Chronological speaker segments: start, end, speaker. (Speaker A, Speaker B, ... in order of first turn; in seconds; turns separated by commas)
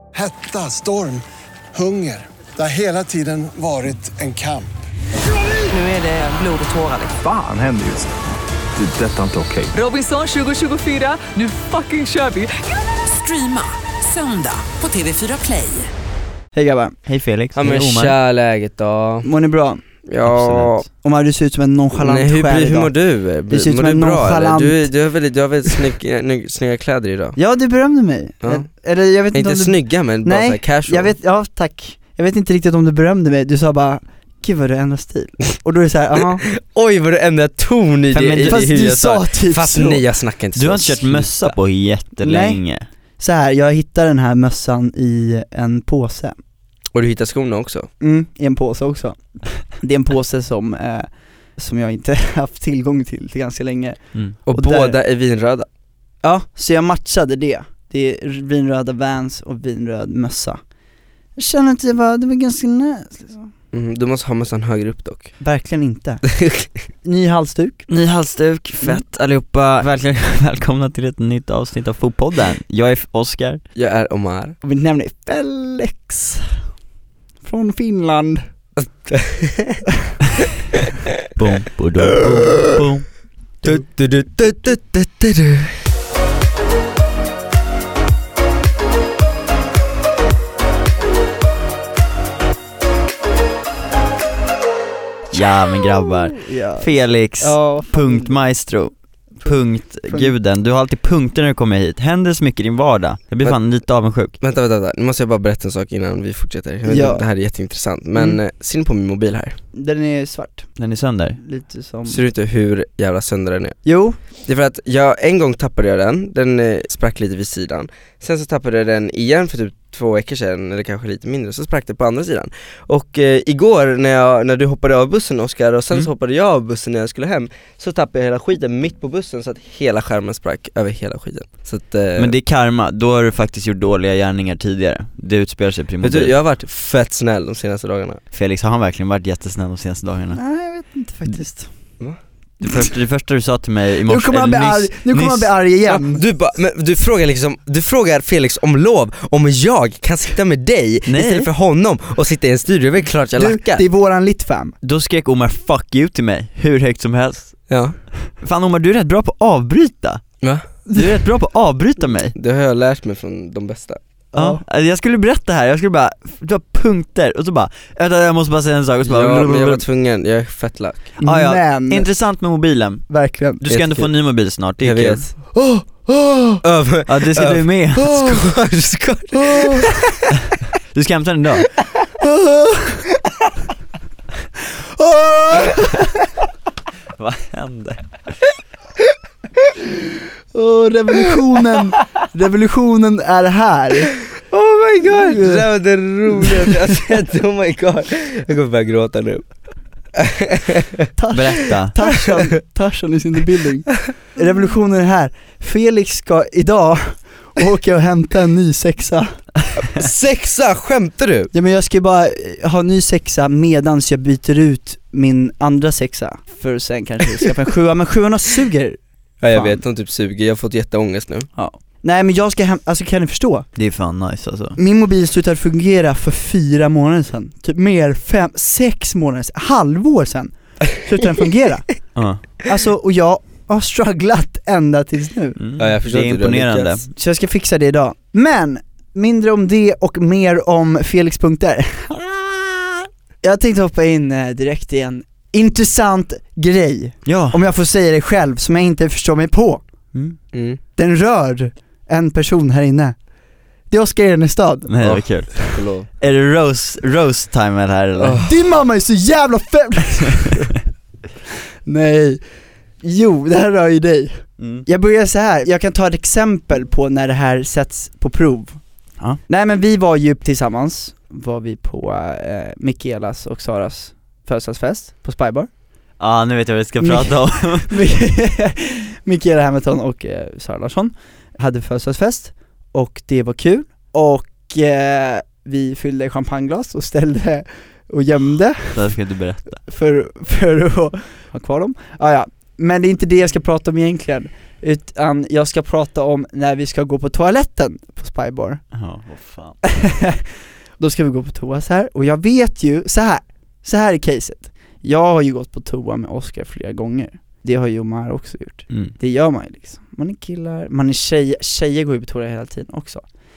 Speaker A: 0.1-4.7, Speaker B: 5.7-7.3, Speaker C: 7.2-8.2, Speaker C: 8.8-9.8, Speaker B: 9.7-15.9, Speaker D: 16.5-17.0, Speaker E: 17.1-18.1, Speaker F: 17.6-19.3, Speaker D: 19.2-19.8, Speaker F: 20.1-20.9, Speaker E: 20.2-20.8, Speaker D: 21.0-22.9, Speaker F: 22.0-27.4, Speaker D: 23.5-24.9, Speaker D: 27.4-36.4, Speaker F: 28.4-28.7, Speaker F: 29.3-31.2, Speaker F: 36.6-41.5, Speaker E: 38.1-39.0, Speaker D: 38.2-40.0, Speaker E: 40.5-42.9, Speaker D: 42.2-42.6, Speaker D: 43.2-46.4, Speaker F: 47.0-47.9, Speaker D: 48.0-54.0, Speaker F: 54.5-55.7, Speaker D: 54.5-55.0, Speaker D: 56.2-60.6, Speaker D: 61.4-63.5, Speaker F: 63.7-65.3, Speaker D: 65.4-66.2, Speaker F: 66.3-66.7, Speaker D: 67.0-67.9, Speaker E: 67.9-73.6, Speaker F: 73.8-74.5, Speaker D: 74.6-76.5, Speaker D: 77.4-78.5, Speaker F: 78.8-79.8, Speaker E: 81.4-83.1, Speaker F: 83.6-85.8, Speaker E: 95.3-104.3, Speaker D: 96.3-98.4, Speaker F: 103.4-103.8, Speaker F: 104.4-109.6, Speaker D: 106.9-107.3, Speaker D: 109.8-110.7, Speaker E: 110.8-111.4, Speaker D: 111.4-112.2, Speaker F: 112.1-113.8, Speaker D: 113.8-114.2, Speaker F: 114.5-132.4, Speaker E: 132.2-136.4, Speaker F: 136.0-138.2, Speaker E: 138.3-140.4, Speaker D: 140.3-141.7, Speaker E: 142.6-145.5, Speaker D: 144.1-146.2, Speaker F: 145.9-153.8, Speaker E: 151.1-151.5, Speaker D: 153.4-154.8, Speaker E: 154.8-157.7, Speaker F: 157.7-157.9, Speaker E: 158.4-160.2, Speaker E: 160.9-162.3, Speaker F: 162.4-164.0, Speaker D: 164.3-164.6, Speaker E: 164.3-169.8, Speaker F: 169.1-171.1, Speaker D: 171.2-172.1, Speaker E: 171.2-173.1, Speaker D: 173.1-173.7, Speaker E: 173.6-175.3, Speaker F: 173.7-175.3, Speaker D: 175.5-176.6, Speaker F: 176.6-180.2, Speaker E: 177.1-178.5, Speaker D: 179.3-179.9, Speaker E: 180.9-181.7, Speaker D: 182.2-183.2, Speaker D: 184.7-186.3, Speaker E: 187.2-188.0, Speaker D: 190.5-194.1, Speaker F: 194.4-199.4, Speaker D: 195.1-195.7, Speaker D: 196.3-196.8, Speaker F: 200.2-200.8, Speaker D: 201.2-209.4, Speaker E: 201.3-202.0, Speaker F: 209.8-211.5, Speaker D: 211.5-219.0, Speaker F: 219.4-221.5, Speaker D: 219.5-219.8, Speaker D: 221.6-223.7, Speaker E: 223.8-224.8, Speaker D: 224.8-232.1, Speaker E: 232.2-232.4, Speaker D: 232.6-235.6, Speaker E: 235.6-237.0, Speaker F: 235.8-237.1, Speaker D: 237.1-249.8, Speaker E: 247.3-247.6, Speaker F: 250.5-250.8, Speaker D: 251.0-253.2, Speaker D: 253.9-254.9, Speaker E: 254.9-258.4, Speaker F: 255.0-256.1, Speaker F: 258.2-258.5, Speaker D: 258.4-260.7, Speaker D: 261.9-262.4, Speaker D: 263.0-268.8, Speaker E: 264.6-264.9, Speaker D: 269.5-275.7, Speaker E: 276.2-278.0, Speaker D: 277.0-289.1, Speaker E: 288.9-289.8, Speaker D: 289.8-298.8, Speaker E: 298.9-299.8, Speaker D: 299.8-300.5, Speaker D: 301.0-313.2